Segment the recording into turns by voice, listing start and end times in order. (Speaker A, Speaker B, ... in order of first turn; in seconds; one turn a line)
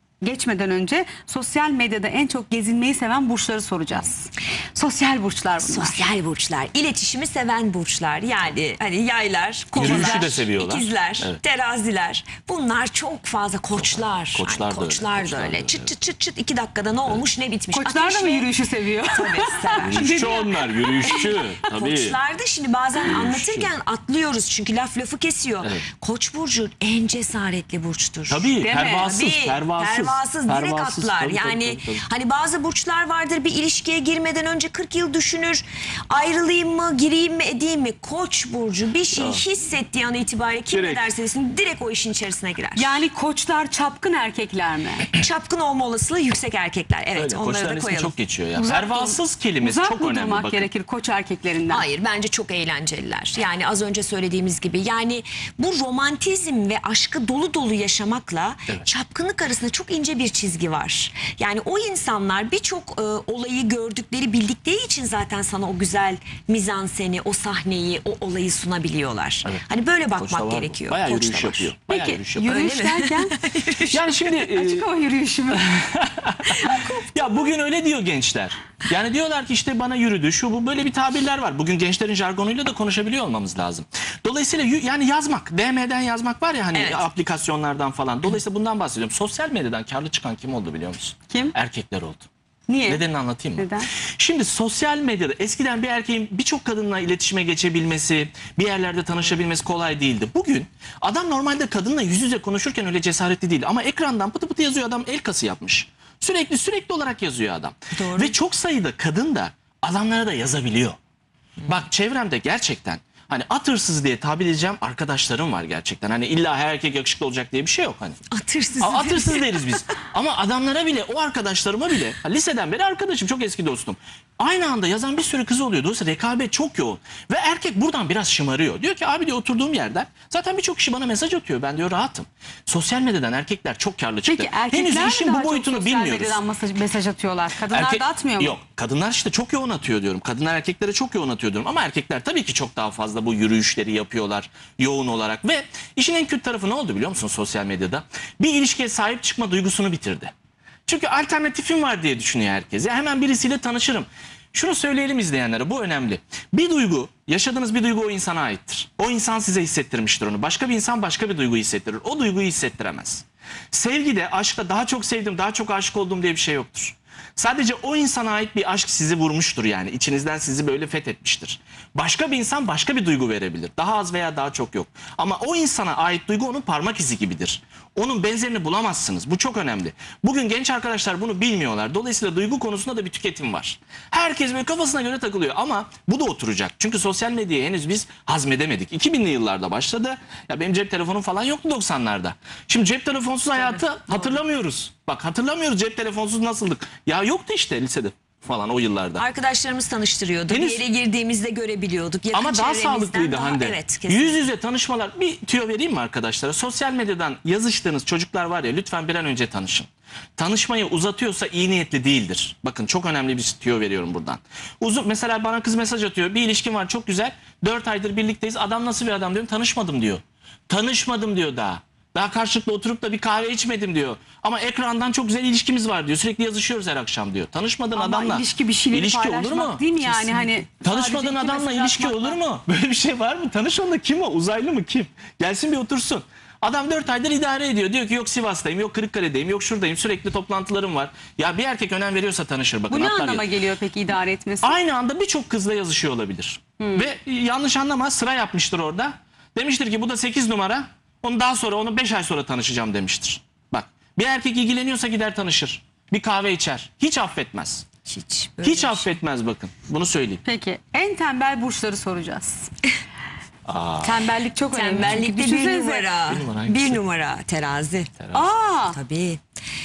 Speaker A: 0.2-6.0
Speaker B: 5.6-18.5
Speaker C: 9.7-11.4
Speaker C: 13.8-15.9
Speaker A: 17.7-21.4
Speaker B: 19.1-20.2
Speaker C: 19.8-22.2
Speaker B: 21.0-43.0
Speaker C: 23.1-23.7
Speaker C: 28.3-32.0
Speaker A: 28.6-29.1
Speaker C: 39.1-39.4
Speaker C: 40.7-41.0
Speaker A: 42.8-45.1
Speaker B: 45.1-48.1
Speaker C: 47.1-50.7
Speaker A: 48.6-51.9
Speaker B: 51.7-71.7
Speaker C: 70.2-72.8
Speaker A: 71.9-73.4
Speaker B: 72.4-74.3
Speaker C: 73.9-74.9
Speaker A: 74.5-75.8
Speaker C: 75.5-92.3
Speaker B: 76.5-77.2
Speaker B: 86.7-87.1
Speaker A: 91.3-91.5
Speaker A: 92.7-93.0
Speaker C: 92.9-111.0
Speaker A: 93.6-93.9
Speaker B: 108.0-108.4
Speaker B: 111.6-111.8
Speaker C: 111.7-118.2
Speaker B: 118.3-119.5
Speaker C: 118.8-136.4
Speaker A: 134.3-138.6
Speaker C: 137.7-150.3
Speaker C: 150.9-199.2
Speaker B: 193.6-194.4
Speaker B: 199.2-204.5
Speaker C: 200.5-200.8
Speaker C: 202.3-243.5
Speaker A: 227.9-232.4
Speaker A: 242.9-244.8
Speaker C: 244.6-257.9
Speaker A: 246.8-247.1
Speaker B: 258.1-259.1
Speaker C: 258.6-260.4
Speaker A: 260.4-262.7
Speaker C: 263.7-264.3
Speaker A: 264.0-266.1
Speaker B: 264.7-268.1
Speaker C: 266.3-267.0
Speaker C: 268.2-268.5
Speaker A: 268.3-269.0
Speaker B: 268.9-269.4